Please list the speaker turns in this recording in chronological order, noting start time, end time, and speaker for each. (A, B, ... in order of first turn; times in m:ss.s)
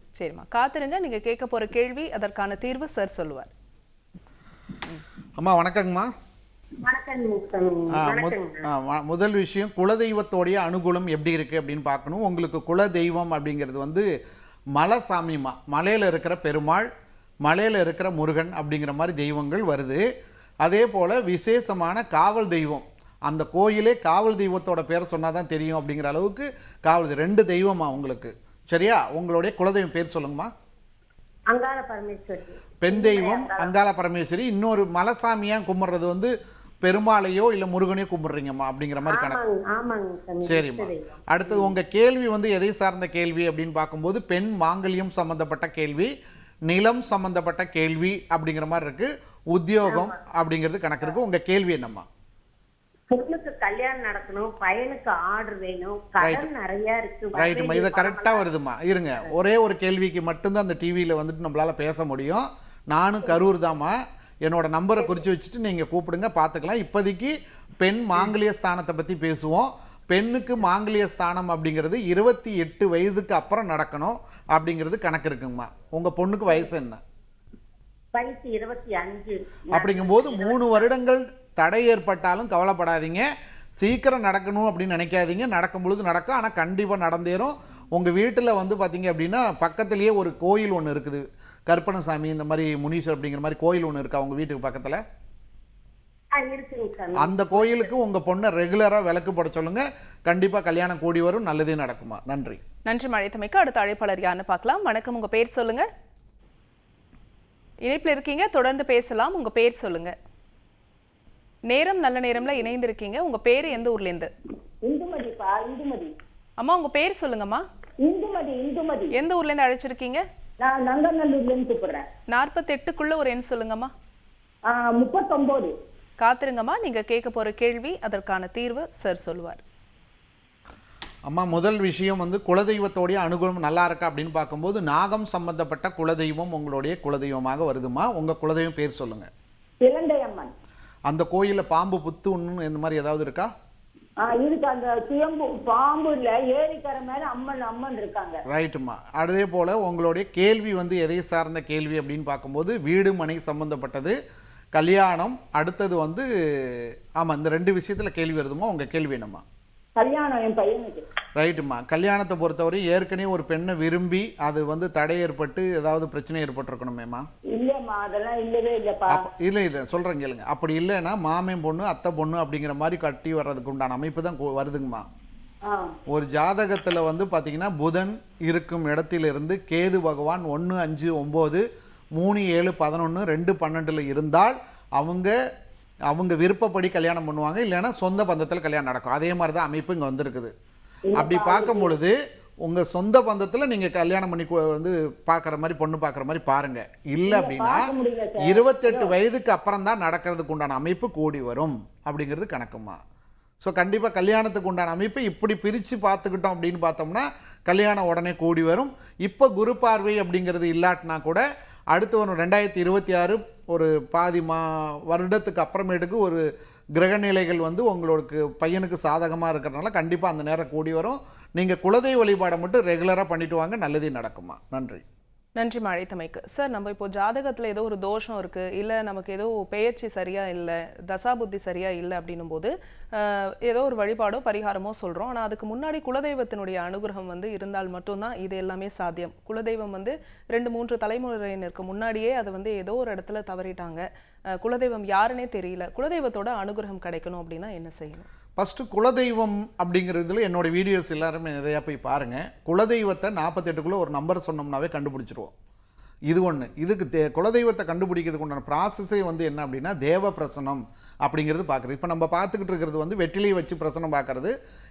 0:00.2-0:03.5 A
0:05.4-0:06.1 B
0:06.8-0:08.6 C
0:07.9-0:14.1 B
0:14.8-0:16.9 B
0:17.4-0:20.0 B
0:20.6-0:30.5 B
0:31.5-0:33.7 C
0:32.8-0:36.3 B
0:36.8-0:39.4 B
0:39.1-0:41.7 C
0:40.4-0:46.1 B
0:46.7-0:52.1 B
0:53.1-0:58.5 C
0:56.2-0:56.5 B
0:57.4-1:17.0 B
1:18.1-1:20.9 C
1:19.7-1:23.3 B
1:23.8-1:35.0 B
1:36.4-1:37.9 C
1:37.2-1:42.6 B
1:42.9-1:45.9 A
1:47.8-1:50.1 A
1:51.7-1:54.3 A
1:54.9-1:56.1 C
1:56.6-1:57.6 A
1:58.1-1:59.1 C
1:59.1-2:00.2 A
2:00.6-2:02.1 C
2:02.3-2:03.9 A
2:04.7-2:05.7 C
2:06.2-2:09.6 A
2:11.3-2:19.3 B
2:19.8-2:20.5 C
2:21.1-2:23.5 B
2:24.2-2:28.4 C
2:28.5-2:34.2 B
2:34.7-2:39.4 B
2:40.0-2:41.0 C
2:41.4-2:47.3 B
2:47.6-2:49.2 C
2:49.1-2:55.1 B
2:55.7-2:56.0 C
2:56.1-3:01.6 B
3:02.2-3:05.3 B
3:06.1-3:10.5 B
3:11.1-3:11.9 C
3:11.2-3:23.0 B
3:17.3-3:19.1 C
3:23.6-3:36.4 B
3:37.0-3:45.0 B
3:45.6-4:04.0 A
4:04.6-4:08.3 A
4:08.6-4:15.5 B
4:16.3-4:24.5 B